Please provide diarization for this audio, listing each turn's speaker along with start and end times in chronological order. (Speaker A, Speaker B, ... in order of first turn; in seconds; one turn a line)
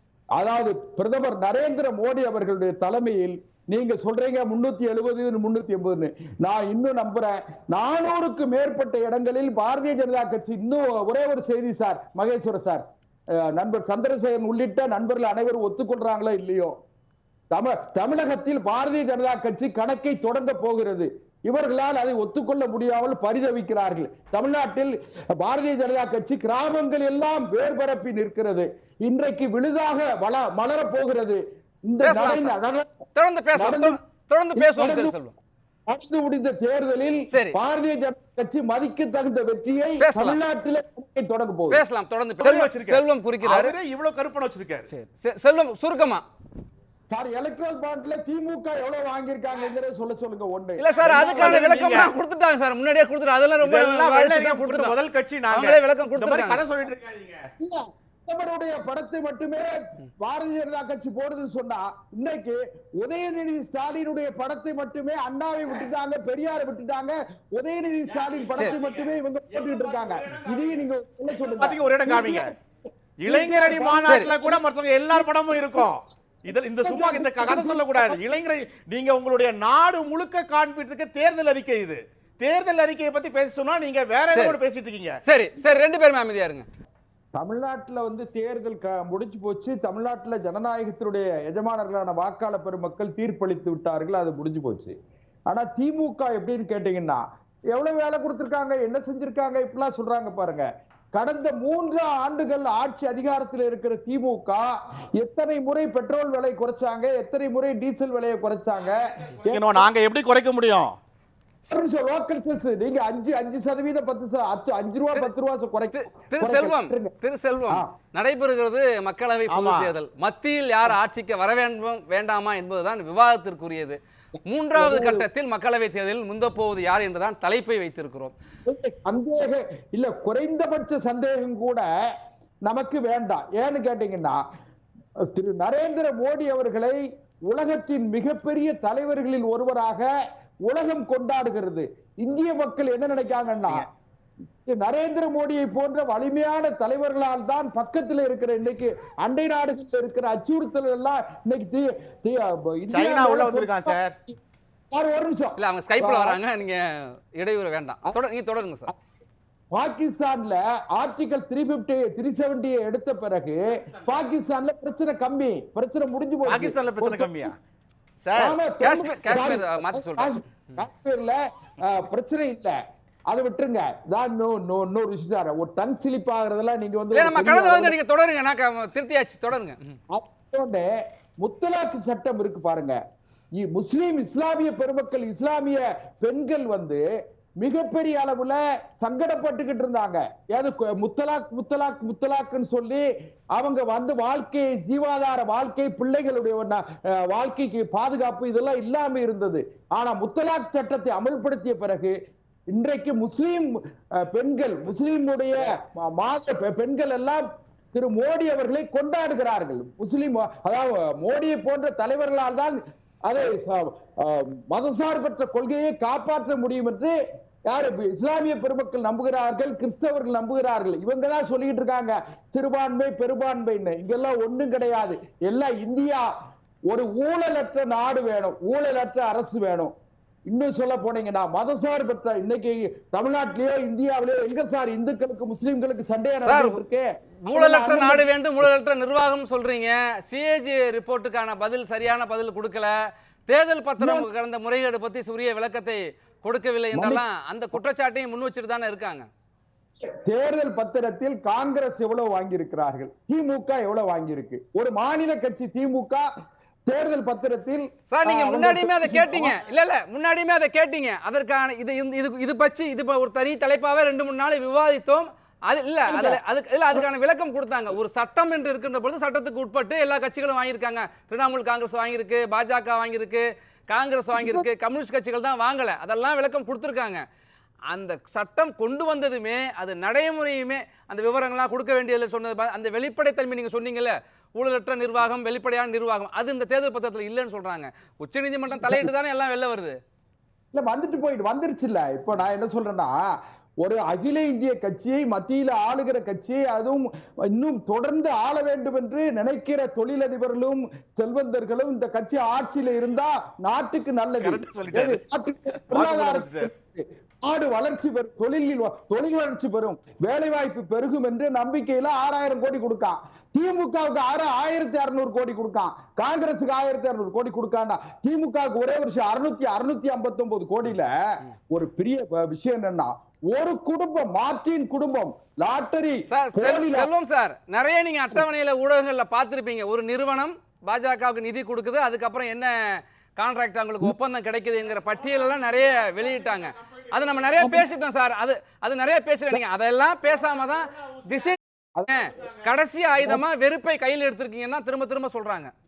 Speaker A: 0.4-12.8
Speaker A: 13.4-16.7
Speaker A: 17.5-32.9
Speaker B: 32.0-32.5
Speaker B: 33.1-35.4
Speaker A: 33.6-34.0
Speaker A: 34.6-35.1
Speaker A: 35.9-41.8
Speaker B: 37.3-37.6
Speaker B: 40.0-40.4
Speaker B: 41.7-43.7
Speaker C: 42.4-44.9
Speaker B: 44.9-46.2
Speaker A: 47.1-51.7
Speaker B: 50.8-55.0
Speaker C: 51.0-52.1
Speaker C: 53.6-57.4
Speaker B: 55.5-56.6
Speaker A: 57.6-59.7
Speaker A: 60.2-72.6
Speaker C: 68.1-72.5
Speaker C: 73.2-85.2
Speaker A: 73.3-74.6
Speaker B: 74.0-74.3
Speaker A: 75.1-75.9
Speaker A: 76.8-78.2
Speaker B: 85.2-86.7
Speaker A: 87.4-95.0
Speaker A: 95.5-109.9
Speaker C: 109.2-111.0
Speaker A: 111.7-117.1
Speaker B: 115.9-128.3
Speaker C: 119.5-119.9
Speaker A: 124.7-125.2
Speaker A: 128.7-131.9
Speaker A: 132.7-134.4
Speaker A: 135.4-140.1
Speaker A: 140.7-143.9
Speaker C: 143.4-143.8
Speaker A: 144.7-154.4
Speaker C: 152.9-154.2
Speaker A: 154.9-156.4
Speaker B: 155.6-158.9
Speaker A: 159.7-167.5
Speaker C: 166.4-167.6
Speaker C: 168.2-168.6
Speaker A: 168.4-172.8
Speaker B: 168.8-170.3
Speaker A: 173.3-177.9
Speaker B: 177.1-179.9
Speaker A: 180.1-180.9
Speaker A: 181.4-183.0
Speaker A: 183.6-187.0
Speaker A: 187.6-193.1
Speaker A: 193.6-202.1
Speaker A: 202.7-217.1
Speaker A: 217.7-226.3
Speaker A: 226.9-229.9
Speaker A: 230.5-238.3
Speaker B: 236.4-236.8
Speaker B: 237.5-242.9
Speaker B: 243.5-249.3
Speaker A: 244.0-244.3
Speaker A: 246.9-247.2
Speaker A: 250.1-256.3
Speaker A: 256.9-259.6
Speaker B: 258.1-277.2
Speaker A: 266.1-266.4
Speaker A: 274.4-274.6
Speaker B: 277.9-290.0
Speaker A: 288.8-289.1
Speaker A: 290.7-293.1
Speaker A: 293.8-321.1
Speaker C: 304.4-305.2
Speaker C: 305.8-306.7
Speaker A: 321.7-327.1
Speaker B: 326.3-341.6
Speaker C: 334.9-337.7
Speaker A: 337.6-337.9
Speaker C: 340.2-341.6
Speaker A: 342.0-342.3
Speaker B: 342.1-345.7
Speaker C: 342.1-342.7